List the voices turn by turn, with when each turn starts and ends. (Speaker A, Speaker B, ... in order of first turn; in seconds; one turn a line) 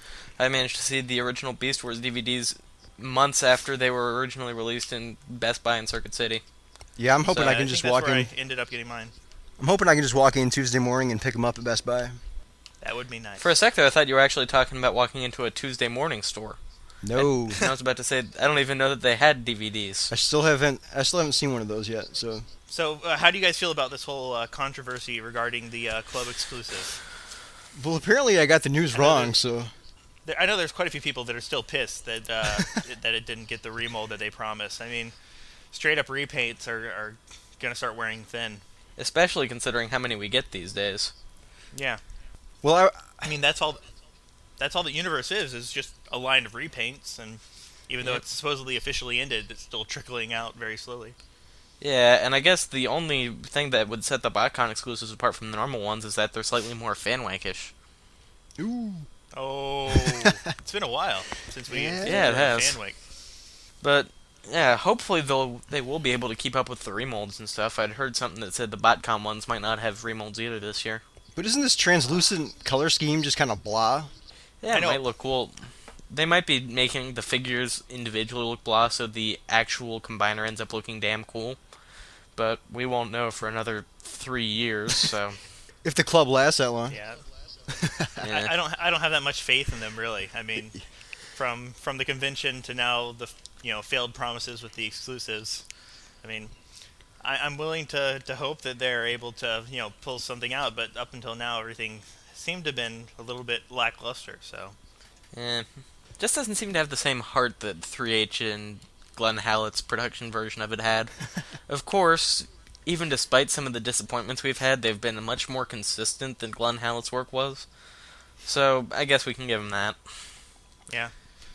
Speaker A: 0.4-6.4
Speaker B: 7.0-8.3
Speaker C: 7.3-9.1
Speaker B: 9.6-12.2
Speaker C: 12.8-13.5
Speaker A: 13.4-16.6
Speaker B: 17.0-17.6
Speaker A: 17.1-20.1
Speaker B: 20.1-22.4
Speaker C: 22.7-27.0
Speaker B: 27.7-29.7
Speaker C: 28.9-29.3
Speaker C: 30.2-35.1
Speaker C: 35.7-38.6
Speaker A: 39.0-41.1
Speaker C: 41.7-42.0
Speaker B: 42.6-43.3
Speaker C: 43.2-43.8
Speaker C: 44.6-51.1
Speaker A: 51.8-57.7
Speaker B: 58.6-59.1
Speaker C: 59.3-63.0
Speaker B: 60.0-60.3
Speaker B: 61.7-62.3
Speaker A: 62.0-62.8
Speaker A: 63.8-71.0
Speaker B: 71.3-74.1
Speaker A: 74.6-75.5
Speaker C: 74.7-75.0
Speaker A: 76.1-81.6
Speaker A: 82.3-85.4
Speaker B: 85.8-87.0
Speaker C: 86.9-87.2
Speaker B: 87.7-88.1
Speaker A: 88.2-88.5
Speaker C: 88.2-90.8
Speaker C: 91.3-95.6
Speaker C: 96.2-96.5
Speaker C: 97.2-104.8
Speaker A: 105.3-105.7
Speaker A: 106.2-111.1
Speaker A: 111.7-117.7
Speaker A: 118.4-120.0